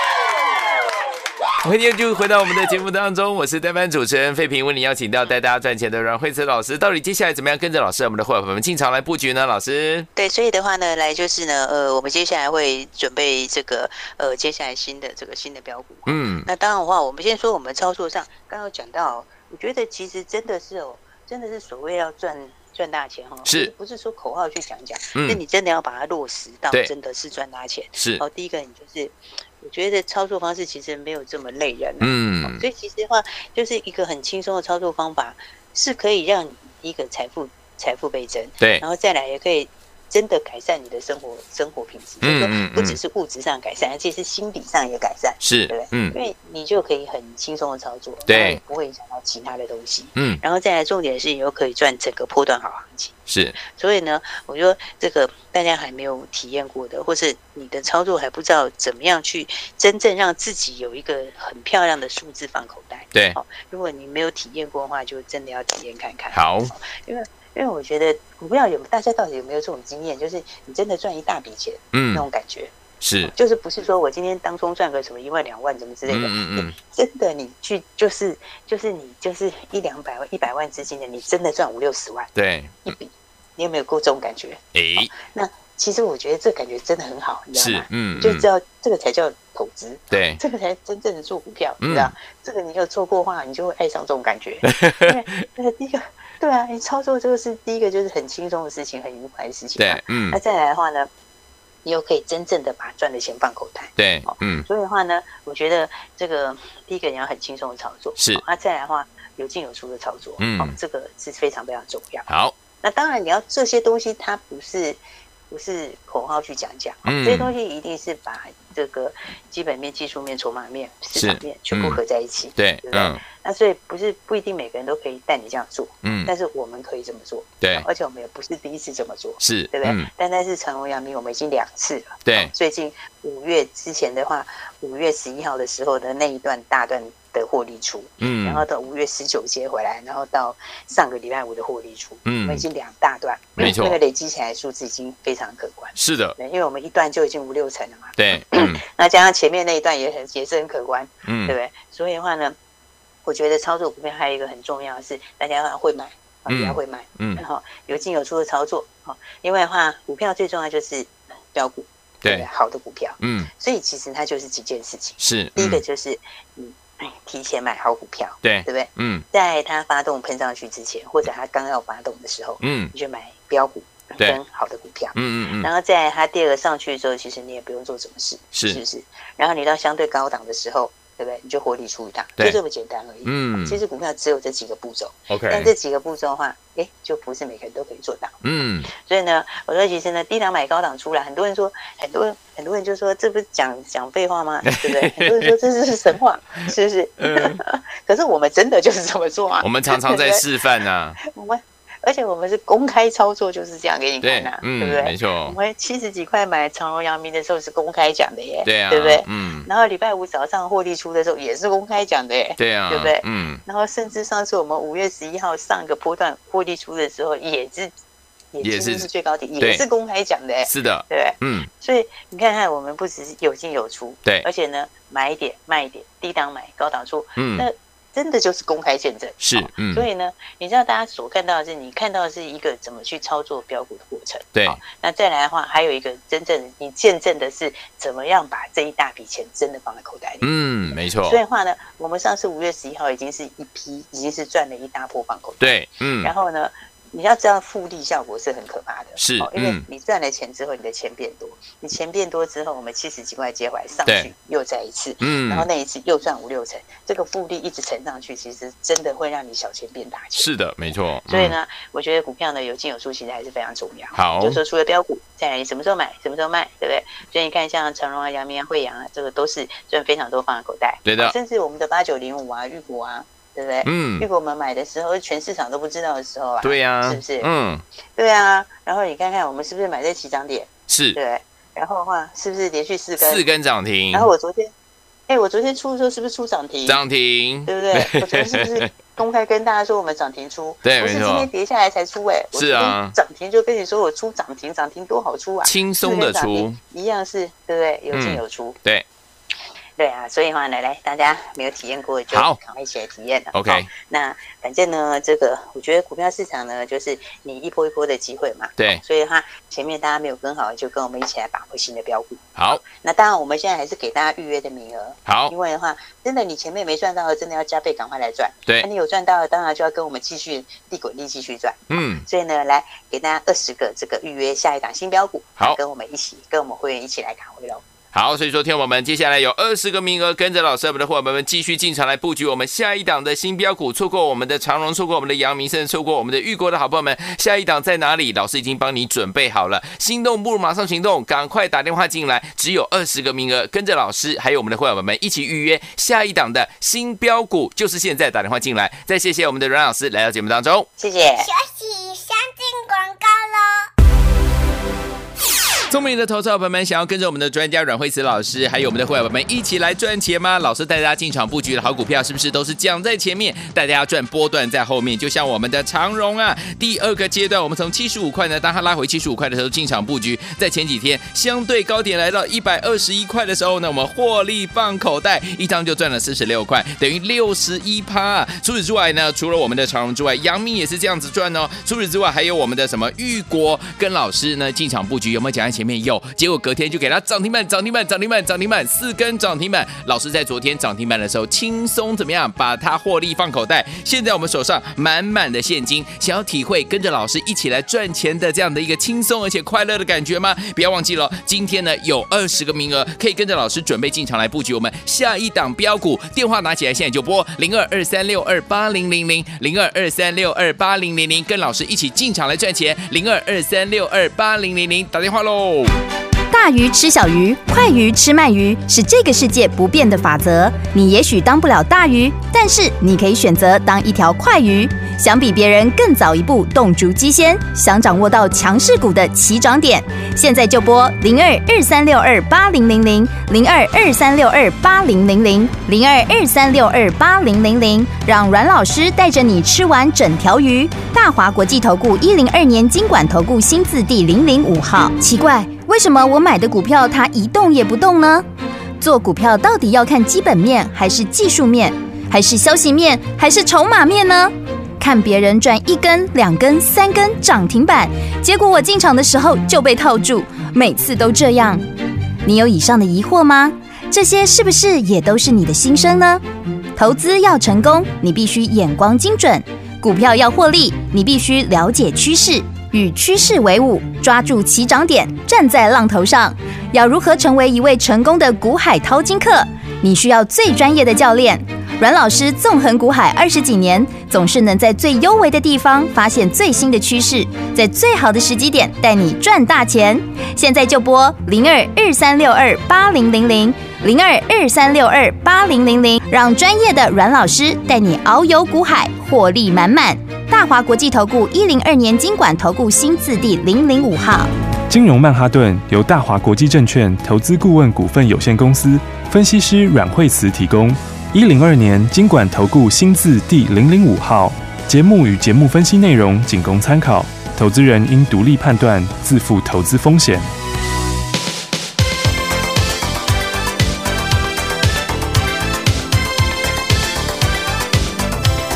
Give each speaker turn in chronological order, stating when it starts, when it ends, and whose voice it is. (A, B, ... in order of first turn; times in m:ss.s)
0:01.6-0:10.1 A
0:10.2-1:12.7 B
0:16.1-0:16.5 A
0:23.5-0:23.7 A
0:25.2-0:25.4 A
0:28.0-0:28.2 A
0:32.0-0:32.6 A
0:42.2-0:43.0 A
0:45.4-0:46.1 A
0:48.3-0:48.6 A
0:50.2-0:50.4 A
0:53.3-0:53.6 A
1:06.3-1:06.7 A
1:11.9-1:12.3 A
1:13.0-1:13.3 A
1:13.2-1:22.3 B
1:16.1-1:16.7 A
1:22.4-1:22.8 A
1:22.8-1:41.1 B
1:24.8-1:25.1 A
1:27.6-1:28.5 A
1:30.1-1:30.4 A
1:31.8-1:32.1 A
1:34.6-1:35.4 A
1:39.8-1:40.4 A
1:41.8-1:52.3 B
1:44.0-1:44.7 A
1:48.2-1:48.4 A
1:50.4-1:50.7 A
1:52.3-1:52.6 A
1:52.8-2:32.6 B
1:57.0-1:57.5 A
2:01.1-2:02.0 A
2:02.6-2:03.2 A
2:06.0-2:06.3 A
2:07.6-2:07.9 A
2:09.4-2:10.1 A
2:12.3-2:12.5 A
2:18.2-2:18.6 A
2:22.3-2:22.6 A
2:23.6-2:24.0 A
2:26.0-2:26.4 A
2:28.2-2:28.8 A
2:31.2-2:31.6 A
2:33.2-3:08.4 B
2:36.5-2:37.4 A
2:43.2-2:43.5 A
2:45.2-2:45.8 A
2:48.4-2:49.2 A
2:52.6-2:52.9 A
2:55.2-2:55.7 A
2:58.5-2:58.8 A
3:03.2-3:03.8 A
3:05.3-3:05.7 A
3:08.4-3:08.9 A
3:08.9-3:20.5 B
3:14.7-3:15.5 A
3:17.2-3:17.6 A
3:19.6-3:21.2 A
3:21.2-3:37.9 B
3:24.2-3:25.6 A
3:28.6-3:29.7 A
3:32.6-3:33.6 A
3:38.5-4:00.5 B
3:38.6-3:39.1 A
3:40.7-3:41.7 A
3:47.4-3:47.7 A
3:49.4-3:50.1 A
3:54.6-3:54.8 A
4:00.4-4:01.4 A
4:01.2-4:20.5 B
4:05.6-4:06.3 A
4:09.2-4:09.8 A
4:15.2-4:15.7 A
4:20.4-4:21.6 A
4:21.3-4:37.5 B
4:24.2-4:24.6 A
4:31.1-4:31.3 A
4:33.8-4:34.3 A
4:36.6-4:37.8 A
4:38.2-4:43.4 B
4:40.9-4:41.2 A
4:43.2-4:44.3 A
4:44.1-4:44.7 B
4:45.3-4:47.0 B
4:46.9-4:48.9 A
4:47.7-4:58.8 B
4:50.8-4:51.5 A
4:52.5-4:53.2 A
4:55.6-4:56.8 A
4:58.1-4:59.0 A
5:00.0-5:27.8 B
5:02.3-5:02.6 A
5:03.5-5:03.9 A
5:12.6-5:12.8 A
5:15.3-5:15.5 A
5:21.9-5:22.2 A
5:28.1-5:50.9 A
5:51.0-5:51.5 B
5:51.4-5:53.9 C
5:55.9-6:56.0 A
6:56.5-7:28.4 D
7:29.0-7:41.8 D
7:42.4-7:46.4 D
7:47.0-8:24.5 D
8:24.9-8:40.5 E